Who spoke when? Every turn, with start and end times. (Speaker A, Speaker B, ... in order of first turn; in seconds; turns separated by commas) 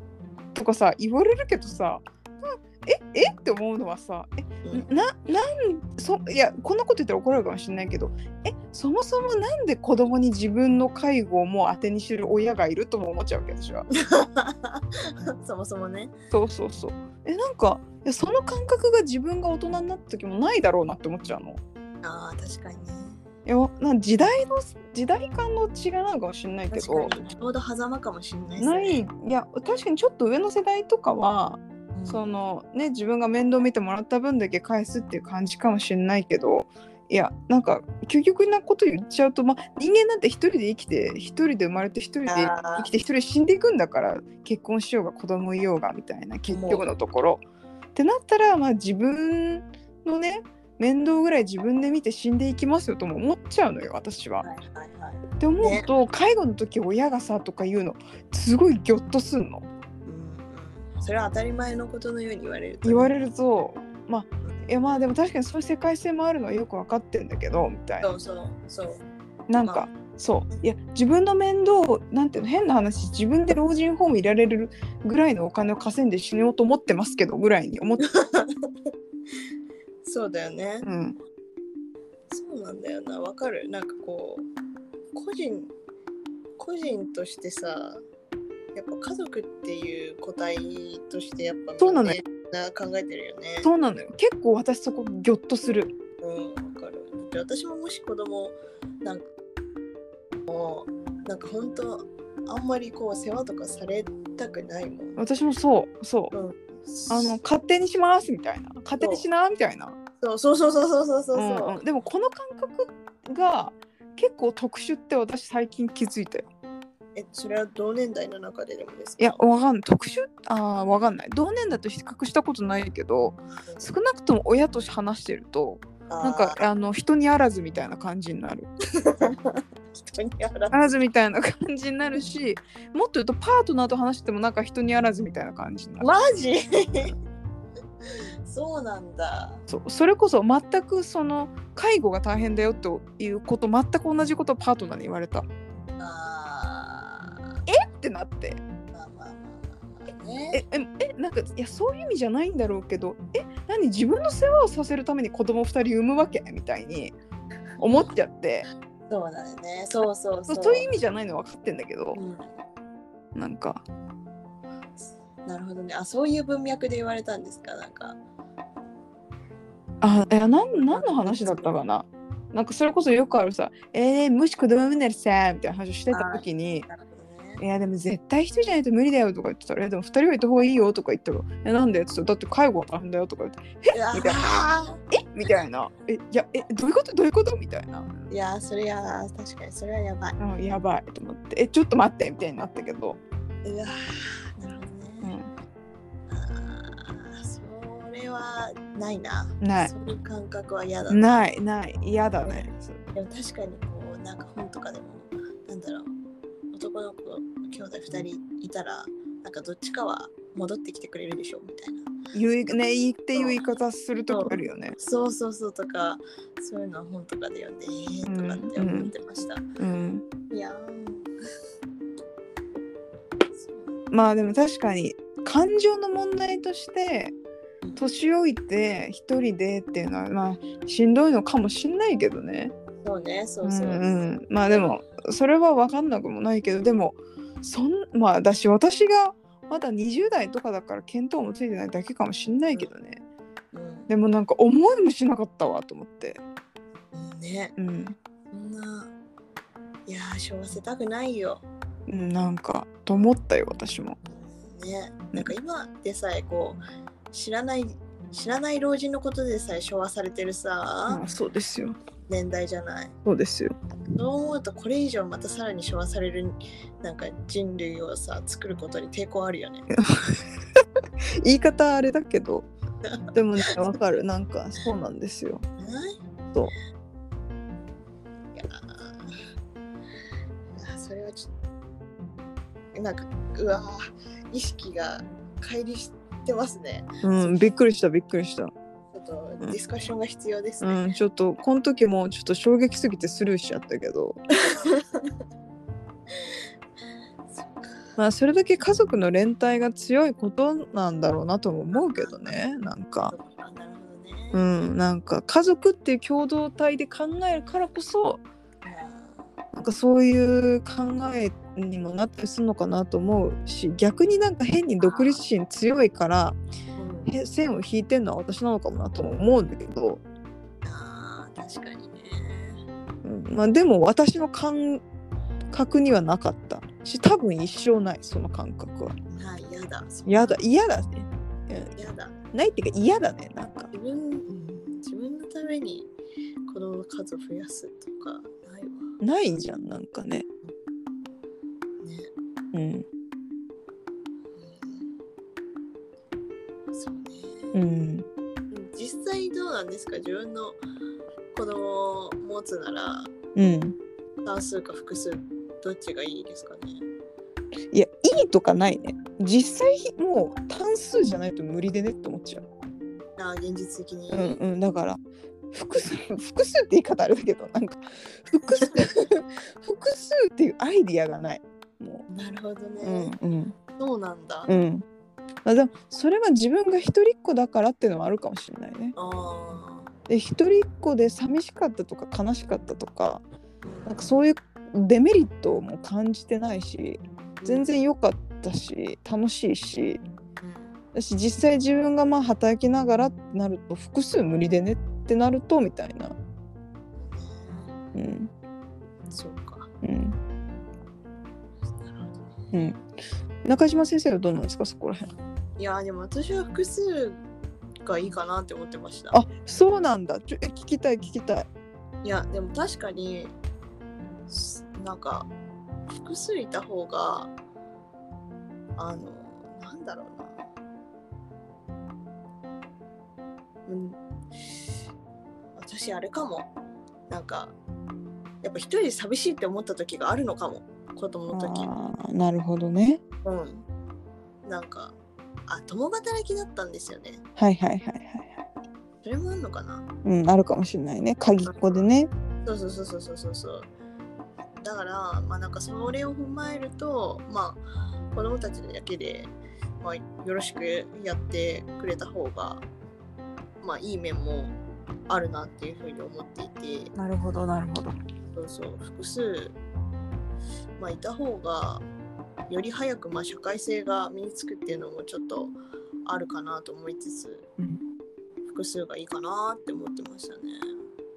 Speaker A: 0.5-13.9, Speaker B: 13.9-16.1, Speaker A: 16.3-21.6, Speaker B: 22.0-23.2, Speaker A: 23.4-27.2, Speaker B: 26.7-29.0, Speaker A: 28.6-47.4, Speaker B: 31.9-32.2, Speaker B: 42.3-42.9, Speaker B: 46.5-46.9, Speaker A: 47.9-54.5, Speaker B: 54.4-55.9, Speaker A: 55.4-59.6, Speaker B: 60.0-63.1, Speaker A: 62.8-68.1, Speaker B: 68.0-69.0, Speaker A: 69.5-78.0, Speaker B: 69.6-69.9, Speaker B: 78.0-78.5, Speaker B: 80.0-80.9, Speaker A: 80.8-81.2, Speaker B: 82.3-84.5, Speaker B: 85.1-85.7, Speaker B: 86.6-88.0, Speaker B: 88.7-93.7, Speaker A: 91.8-92.2, Speaker A: 93.6-95.9, Speaker B: 96.2-99.2, Speaker B: 100.5-105.2, Speaker A: 105.2-106.3, Speaker B: 106.3-107.4, Speaker A: 107.1-110.0, Speaker B: 109.0-109.2, Speaker B: 110.2-111.8, Speaker A: 111.3-116.5, Speaker B: 117.2-119.4, Speaker A: 119.2-128.7, Speaker B: 126.1-126.6, Speaker B: 128.9-131.0, Speaker A: 130.7-136.1, Speaker B: 136.0-137.1, Speaker B: 138.4-139.6, Speaker A: 139.7-145.5, Speaker B: 146.0-147.4, Speaker A: 147.7-148.6, Speaker B: 148.9-150.6, Speaker A: 150.5-157.1, Speaker A: 157.8-158.7, Speaker B: 157.8-158.1, Speaker B: 159.1-160.9, Speaker A: 160.5-162.2, Speaker B: 162.1-162.5, Speaker A: 163.3-163.8, Speaker B: 165.4-168.2, Speaker A: 170.0-176.8, Speaker B: 170.9-171.7, Speaker B: 176.1-177.6, Speaker A: 177.6-184.4, Speaker B: 183.9-185.0, Speaker A: 185.1-188.2, Speaker B: 188.3-190.4, Speaker A: 190.4-193.2, Speaker B: 193.6-193.9, Speaker B: 194.6-195.3, Speaker A: 195.2-195.5, Speaker B: 196.3-201.5, Speaker A: 199.6-199.9, Speaker A: 201.1-203.0, Speaker B: 202.4-206.1, Speaker B: 206.7-212.1, Speaker A: 212.3-214.9, Speaker B: 213.3-213.7, Speaker B: 214.3-219.6, Speaker A: 218.2-219.1, Speaker A: 219.8-220.2, Speaker B: 220.5-221.3, Speaker B: 223.6-224.0, Speaker A: 224.1-227.3, Speaker A: 228.0-232.7, Speaker B: 233.0-235.0, Speaker A: 233.6-243.2, Speaker B: 243.7-244.1, Speaker A: 244.1-246.4, Speaker B: 247.1-247.7, Speaker A: 247.8-248.2, Speaker B: 248.5-249.1, Speaker B: 250.1-251.6, Speaker A: 252.1-254.2, Speaker B: 254.2-256.8, Speaker B: 257.3-261.2, Speaker A: 261.1-262.0, Speaker B: 262.3-263.1, Speaker A: 263.2-263.7, Speaker B: 264.1-269.9, Speaker A: 269.9-270.8, Speaker A: 271.4-272.7, Speaker B: 273.0-273.7, Speaker A: 273.3-275.6, Speaker B: 275.8-276.2, Speaker B: 278.5-279.3, Speaker B: 280.8-281.5, Speaker B: 282.9-287.7, Speaker A: 287.2-288.7, Speaker B: 289.1-291.1, Speaker A: 290.8-294.4, Speaker B: 294.6-295.3, Speaker B: 297.6-298.0, Speaker A: 298.2-303.3, Speaker B: 301.9-302.6, Speaker B: 303.3-304.6, Speaker A: 304.5-308.4, Speaker B: 308.8-309.4, Speaker A: 309.7-316.6, Speaker B: 315.0-315.4, Speaker B: 316.9-317.3, Speaker A: 317.3-320.2, Speaker B: 320.8-322.8, Speaker A: 323.2-325.0, Speaker A: 325.7-329.1, Speaker B: 329.3-330.6, Speaker A: 330.2-331.9, Speaker B: 331.9-332.4, Speaker A: 332.5-333.9, Speaker B: 333.9-336.1, Speaker B: 336.7-339.1, Speaker A: 339.2-340.5, Speaker B: 342.0-342.3, Speaker A: 342.7-343.1, Speaker B: 344.6-345.1, Speaker B: 346.9-347.7, Speaker A: 347.7-348.3, Speaker B: 348.7-350.8, Speaker B: 351.5-353.3, Speaker A: 353.5-353.9, Speaker B: 354.4-357.0, Speaker A: 357.9-362.6, Speaker B: 363.4-364.6, Speaker A: 364.3-365.2, Speaker A: 365.7-372.2, Speaker B: 372.3-373.3, Speaker A: 373.0-373.7, Speaker B: 374.0-374.7, Speaker A: 374.7-375.0, Speaker A: 375.6-379.1, Speaker B: 379.1-380.1, Speaker A: 380.3-383.4, Speaker B: 383.8-384.3, Speaker A: 384.1-390.2, Speaker B: 387.6-387.9, Speaker B: 390.6-390.9, Speaker A: 391.1-396.3, Speaker B: 397.2-397.9, Speaker A: 398.1-398.5, Speaker B: 399.3-399.9, Speaker A: 400.0-400.4, Speaker B: 401.9-402.7, Speaker A: 402.7-403.0, Speaker A: 403.6-405.3, Speaker B: 405.8-407.4, Speaker B: 408.0-409.4, Speaker A: 409.3-411.7, Speaker B: 412.2-413.5, Speaker B: 414.5-415.5, Speaker B: 416.1-417.5, Speaker B: 419.0-420.6, Speaker B: 423.9-424.7, Speaker B: 425.8-426.7, Speaker B: 427.3-427.7, Speaker B: 428.6-431.9, Speaker A: 431.5-433.2, Speaker B: 433.4-433.9, Speaker B: 434.6-435.1, Speaker B: 435.7-437.4, Speaker A: 437.6-438.6, Speaker B: 439.2-440.1, Speaker A: 440.2-442.3, Speaker B: 441.6-442.0, Speaker B: 442.6-443.9, Speaker B: 444.8-452.8, Speaker B: 453.8-454.8, Speaker B: 455.3-457.1, Speaker A: 457.1-458.1, Speaker B: 458.5-459.8, Speaker B: 461.0-462.0, Speaker B: 462.7-467.6, Speaker B: 468.6-470.9